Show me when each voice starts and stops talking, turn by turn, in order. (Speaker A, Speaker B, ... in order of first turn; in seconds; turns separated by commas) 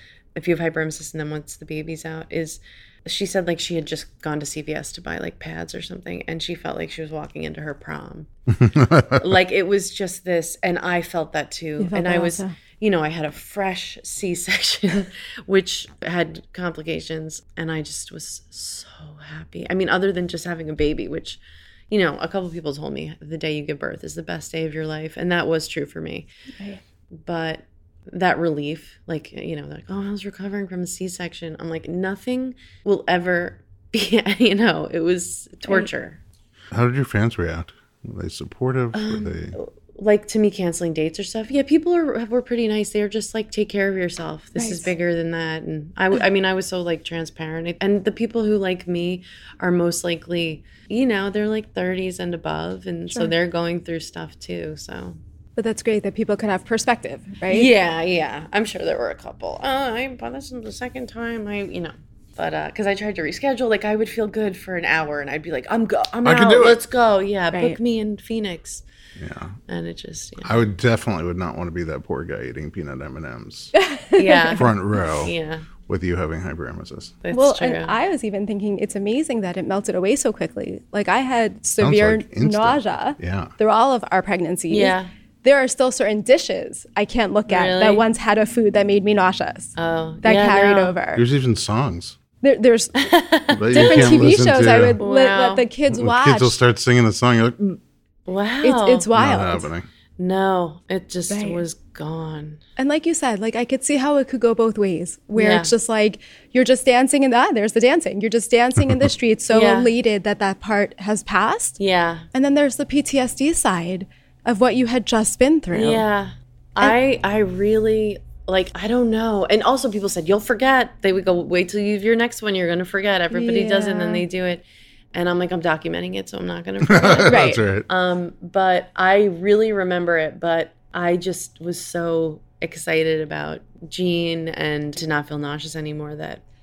Speaker A: 0.3-8.3, Speaker B: 8.5-9.2, Speaker A: 9.1-26.3, Speaker C: 11.8-12.5, Speaker A: 27.2-36.2, Speaker B: 36.7-39.5, Speaker A: 38.9-55.2, Speaker C: 44.6-44.9, Speaker C: 55.5-57.7, Speaker A: 57.5-68.8, Speaker B: 66.2-66.8, Speaker B: 69.2-69.6, Speaker A: 69.7-70.6, Speaker B: 70.4-73.7, Speaker C: 73.7-74.6, Speaker A: 74.2-75.7, Speaker B: 74.5-77.2, Speaker A: 77.2-78.0, Speaker C: 77.3-91.2, Speaker B: 81.8-83.5, Speaker A: 84.7-85.1, Speaker A: 87.5-88.0, Speaker A: 89.8-90.9, Speaker B: 91.1-92.2, Speaker C: 92.4-93.1, Speaker A: 93.0-94.3, Speaker B: 93.5-95.0, Speaker C: 93.7-96.6, Speaker A: 95.0-95.7, Speaker B: 95.9-97.8, Speaker A: 98.3-99.1, Speaker C: 98.6-99.7, Speaker B: 99.1-99.8, Speaker A: 100.2-102.6, Speaker C: 101.3-101.6, Speaker C: 102.8-111.8, Speaker A: 105.3-105.7, Speaker B: 108.8-109.1, Speaker A: 109.5-109.9, Speaker A: 111.8-112.3, Speaker C: 112.3-116.0, Speaker A: 115.7-136.4, Speaker C: 123.3-124.2, Speaker B: 126.8-127.9, Speaker C: 127.2-127.6